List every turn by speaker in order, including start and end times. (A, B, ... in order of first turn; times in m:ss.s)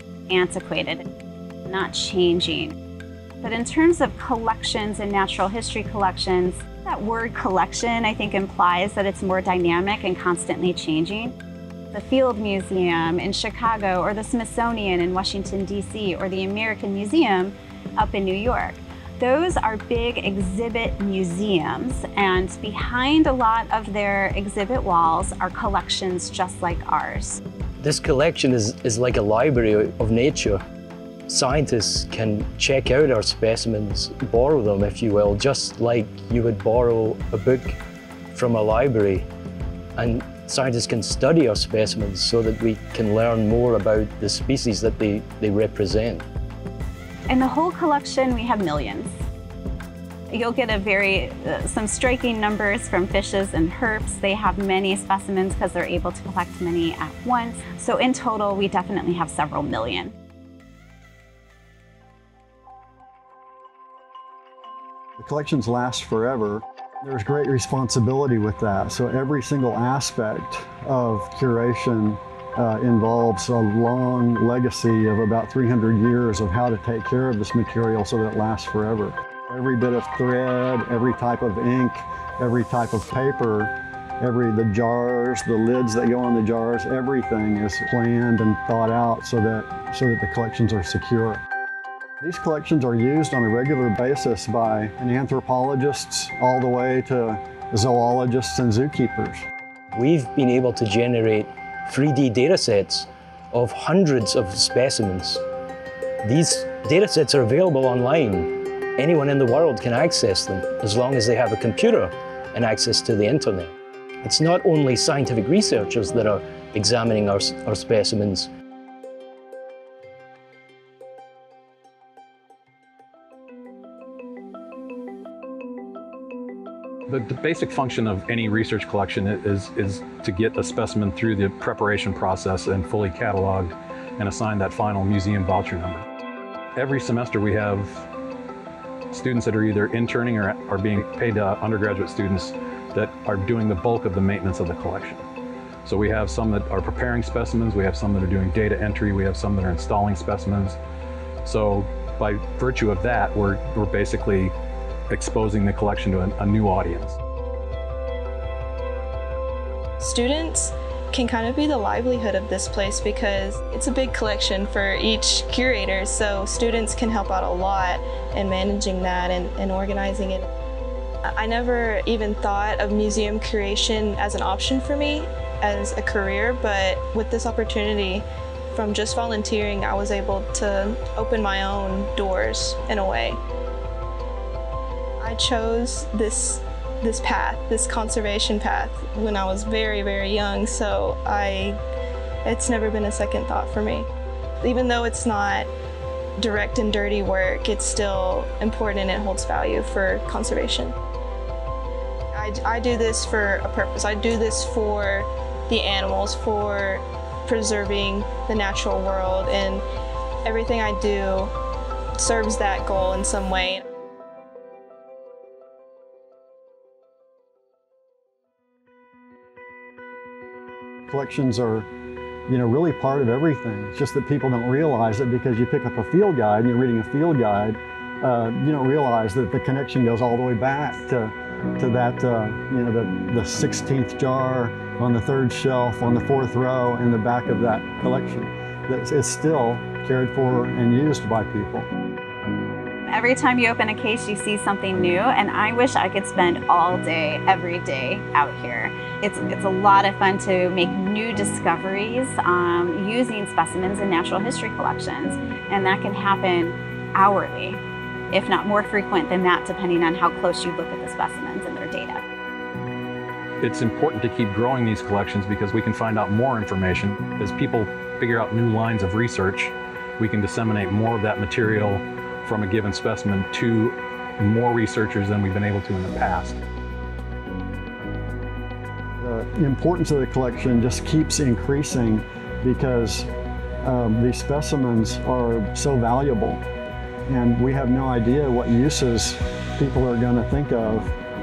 0:00.3-0:01.0 A
0:01.7-0:02.8 A
0:03.4-0:11.3 A
0:11.9-0:27.4 A
0:27.8-0:30.6 B
0:31.3-0:37.8 B
0:38.3-0:39.3 B
0:40.0-0:46.2 B
0:47.3-0:49.1 A
0:50.3-1:00.1 A
1:05.2-1:31.4 C
1:32.2-1:39.4 C
1:39.9-1:45.4 B
1:46.2-1:53.7 B
1:54.2-1:58.5 B
2:07.1-2:16.0 D
2:16.8-2:18.1 D
2:19.1-2:25.2 D
2:25.8-2:30.8 D
2:31.4-2:34.5 D
2:35.1-2:37.2 D
2:40.0-2:50.4 E
2:51.4-3:03.4 E
3:05.2-3:11.8 E
3:12.4-3:14.0 E
3:14.6-3:15.7 E
3:16.4-3:20.9 E
3:22.3-3:29.8 E
3:30.4-3:31.5 E
3:32.2-3:33.8 E
3:41.1-3:41.9 C
3:42.5-4:01.9 C
4:03.1-4:17.8 A
4:18.3-4:22.2 A
4:23.6-4:36.6 D
4:39.2-4:43.3 C
4:43.8-4:46.6 C
4:47.3-4:51.1 C